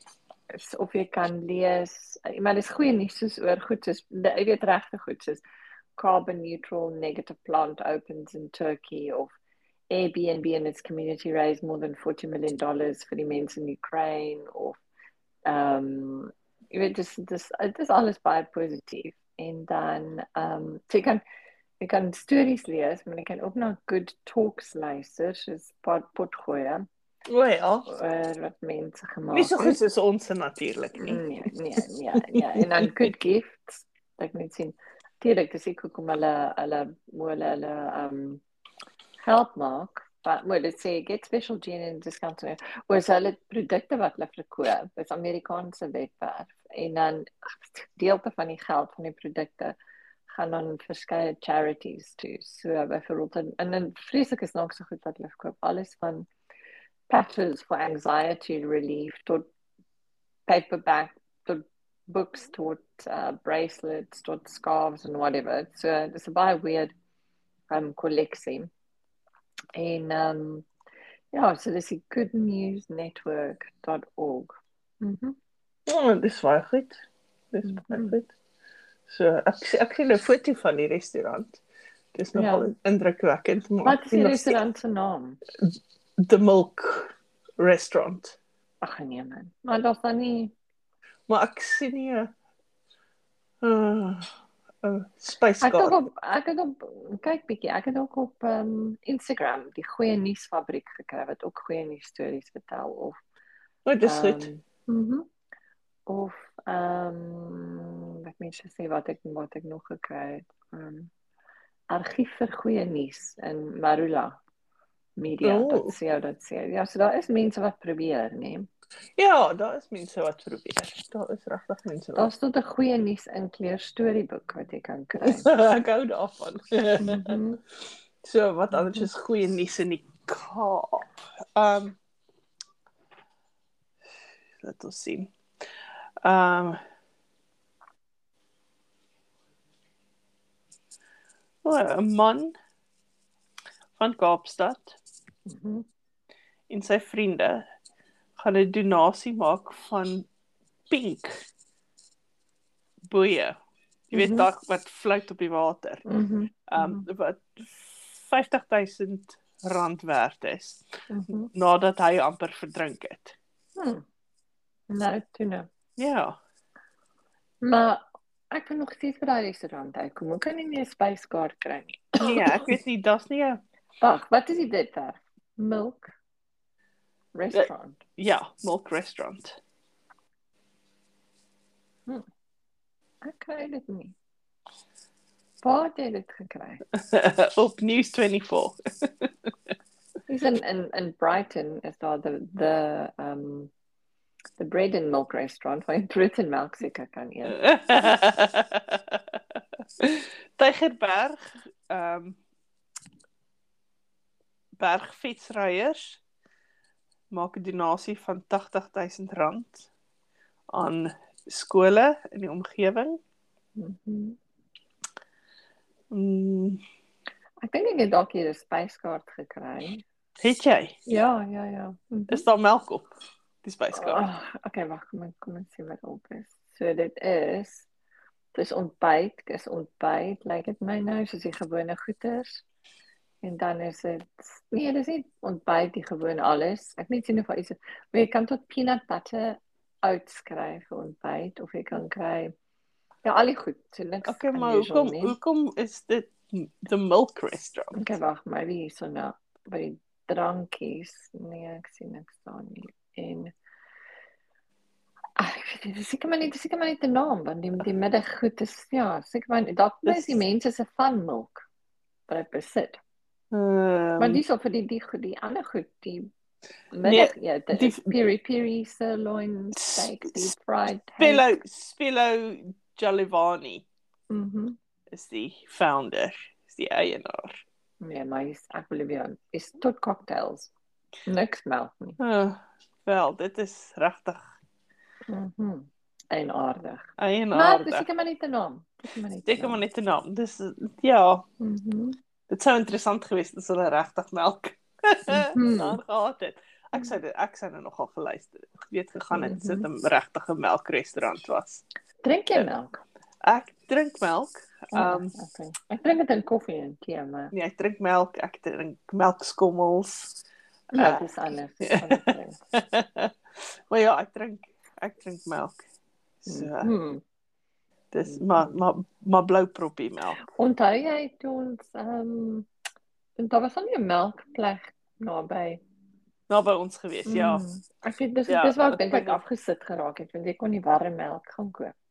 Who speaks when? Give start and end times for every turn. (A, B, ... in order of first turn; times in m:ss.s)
0:00.6-0:05.4 A
0:06.0-0:09.3 A
0:09.9-0:14.8 A
0:15.5-0:21.2 A
0:21.8-0:26.9 A
0:27.3-0:27.9 B
0:27.9-0:29.8 A
0:29.3-0:31.3 B
0:31.0-0:38.4 A
0:32.3-0:32.9 B
0:39.2-0:49.8 A
0:50.3-0:56.3 A
0:57.1-0:59.5 A
1:00.5-1:06.9 A
1:07.7-1:08.7 A
1:09.8-1:10.7 A
1:11.3-1:15.4 A
1:15.9-1:17.0 B
1:17.5-1:18.3 B
1:17.6-1:18.2 A
1:19.1-1:21.6 B
1:22.1-1:24.6 B
1:22.3-1:22.7 A
1:23.8-1:25.4 A
1:26.2-1:28.4 B
1:28.8-1:30.5 A
1:31.3-1:32.3 B
1:33.6-1:34.3 B
1:34.8-1:36.0 B
1:35.6-1:43.2 A
1:43.9-1:44.5 B
1:44.0-1:45.3 A
1:46.1-1:51.1 A
1:51.9-1:54.4 A
1:55.2-1:58.7 A
1:55.4-1:55.9 B
1:59.2-2:02.3 B
2:02.2-2:05.5 A
2:05.2-2:07.4 B
2:07.0-2:07.6 A
2:08.2-2:12.0 B
2:08.7-2:09.1 A
2:14.6-2:15.3 B
2:16.2-2:16.8 B
2:21.6-2:22.5 B
2:24.0-2:25.0 B
2:25.5-2:25.9 A
2:26.7-2:27.6 B
2:28.4-2:30.3 B
2:30.9-2:31.3 B
2:33.1-2:33.6 B
2:34.1-2:36.0 B
2:34.1-2:34.5 A
2:36.1-2:37.1 A
2:36.7-2:40.8 B
2:41.1-2:41.5 A
2:41.5-2:43.4 B
2:43.8-2:44.0 A
2:44.9-2:45.7 A
2:46.0-2:46.4 B
2:47.6-2:52.7 A
2:52.2-2:53.6 B
2:54.0-2:56.1 A
2:57.4-2:58.0 A
2:57.5-2:59.6 B
3:03.2-3:04.2 A
3:05.6-3:06.8 A
3:07.1-3:09.5 B
3:10.3-3:13.7 A
3:14.6-3:17.6 A
3:17.5-3:22.4 B
3:24.8-3:26.2 B
3:27.3-3:29.9 B
3:30.7-3:33.2 B
3:33.8-3:34.4 A
3:36.1-3:36.8 B
3:37.6-3:40.0 A
3:40.4-3:41.0 B
3:41.1-3:42.5 A
3:42.3-3:43.1 B
3:43.6-3:44.2 B
3:43.9-3:47.9 A
3:48.5-3:52.6 A
3:53.4-4:02.5 A
4:03.2-4:05.4 A
4:04.3-4:08.1 B
4:08.0-4:13.5 A
4:15.4-4:21.7 A
4:20.1-4:20.4 B
4:22.3-4:23.0 A
4:23.5-4:24.4 B
4:24.2-4:26.3 A
4:26.9-4:31.5 A
4:27.0-4:28.0 B
4:29.8-4:30.4 B
4:31.2-4:33.9 B
4:34.3-4:34.8 A
4:35.1-4:37.6 B
4:38.0-4:40.7 A
4:41.3-4:42.2 A
4:42.2-4:44.5 B
4:45.3-4:49.8 A
4:47.2-4:48.1 B
4:49.5-4:51.4 B
4:51.6-4:52.2 A
4:52.5-5:01.8 B
4:55.3-4:56.0 A
4:59.3-4:59.9 A
5:02.2-5:03.0 A
5:03.4-5:05.3 B
5:04.9-5:07.5 A
5:07.5-5:10.3 B
5:10.9-5:12.6 A
5:11.0-5:11.2 B
5:11.8-5:13.3 B
5:13.9-5:15.8 B
5:16.4-5:16.9 B
5:16.5-5:17.2 A
5:18.1-5:20.5 B
5:18.2-5:18.8 A
5:20.5-5:22.7 A
5:23.4-5:25.8 A
5:26.5-5:27.6 B
5:27.3-5:31.9 A
5:28.5-5:29.4 B